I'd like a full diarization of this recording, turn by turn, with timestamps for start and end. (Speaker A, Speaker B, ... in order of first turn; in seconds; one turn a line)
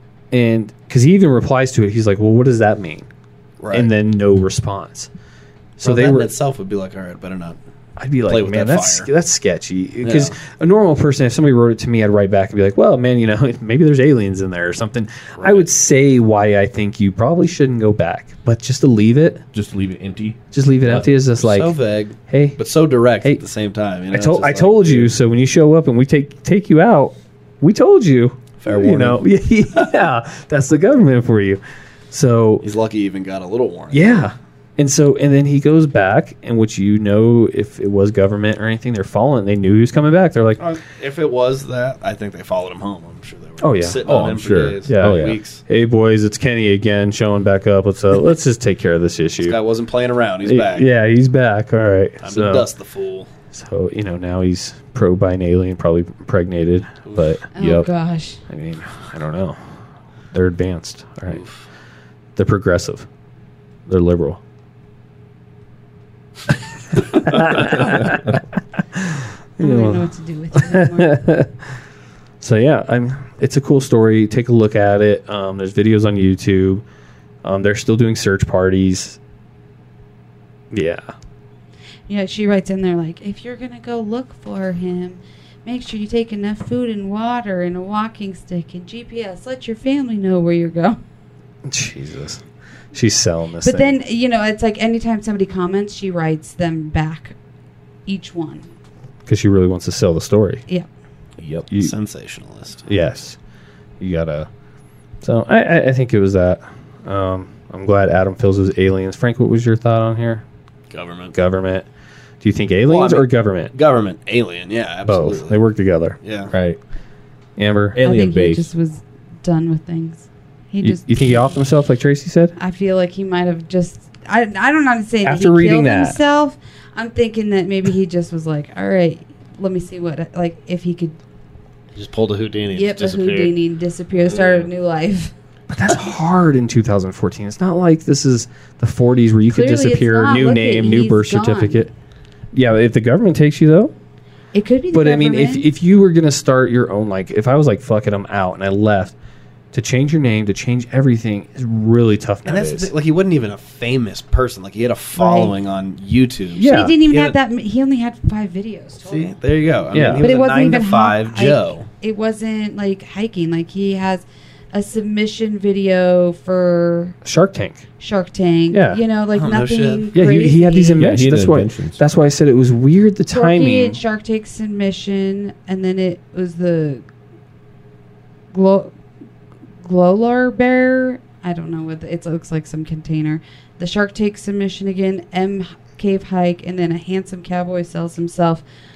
Speaker A: 0.3-3.1
Speaker B: 3.6-3.9
Speaker A: 3.7-5.1
Speaker A: 5.8-6.3
Speaker B: 5.8-7.6
Speaker A: 8.0-19.4
Speaker B: 8.3-9.1
Speaker B: 10.0-10.3
Speaker B: 15.4-15.7
Speaker C: 19.5-20.4
Speaker A: 20.5-21.8
Speaker B: 20.9-25.1
Speaker A: 22.3-22.6
Speaker A: 24.1-31.6
Speaker B: 28.6-29.2
Speaker A: 32.1-32.6
Speaker B: 32.6-34.3
Speaker A: 33.9-40.6
Speaker B: 40.6-45.6
Speaker A: 43.6-44.1
Speaker C: 44.0-45.4
Speaker A: 44.9-49.6
Speaker B: 49.4-50.9
Speaker A: 50.4-52.7
Speaker B: 52.2-53.3
Speaker A: 53.5-57.9
Speaker D: 57.5-58.4
Speaker A: 58.5-59.8
Speaker A: 60.3-61.4
Speaker B: 61.3-61.6
Speaker A: 62.4-63.0
Speaker A: 63.9-64.4
Speaker A: 67.0-68.4
Speaker A: 68.9-71.8
Speaker D: 69.6-71.2
Speaker A: 72.4-76.8
Speaker A: 77.4-79.2
Speaker A: 80.7-81.0
Speaker D: 82.1-91.0
Speaker A: 91.6-92.4
Speaker A: 92.9-94.0
Speaker D: 93.6-97.3
Speaker D: 98.0-98.7
Speaker A: 99.3-100.6
Speaker C: 101.4-101.7
Speaker B: 101.7-102.9
Speaker A: 102.9-103.4
Speaker A: 104.0-104.5
Speaker A: 105.2-110.4
Speaker B: 110.9-111.3
Speaker A: 111.3-111.8
Speaker A: 112.4-113.7
Speaker B: 112.9-115.6
Speaker A: 115.0-116.2
Speaker B: 116.2-116.5
Speaker C: 116.5-116.8
Speaker A: 117.6-118.0
Speaker C: 117.9-118.7
Speaker D: 118.0-121.5
Speaker A: 120.8-122.5
Speaker D: 122.5-131.2
Speaker A: 125.2-126.2
Speaker B: 131.9-133.5
Speaker D: 132.7-135.3
Speaker A: 135.7-141.9
Speaker D: 139.5-141.9
Speaker A: 142.5-143.9
Speaker D: 144.5-145.7
Speaker A: 144.9-149.1
Speaker A: 149.7-152.9
Speaker B: 152.4-157.3
Speaker D: 155.2-155.5
Speaker D: 156.6-159.3
Speaker A: 156.6-156.9
Speaker B: 159.0-161.9
Speaker A: 159.9-160.2
Speaker D: 160.1-167.2
Speaker A: 167.2-167.8
Speaker D: 168.0-171.1
Speaker A: 168.7-169.0
Speaker B: 169.3-170.1
Speaker A: 170.1-174.0
Speaker C: 171.0-172.0
Speaker D: 173.3-177.1
Speaker D: 178.5-178.9
Speaker D: 179.8-188.6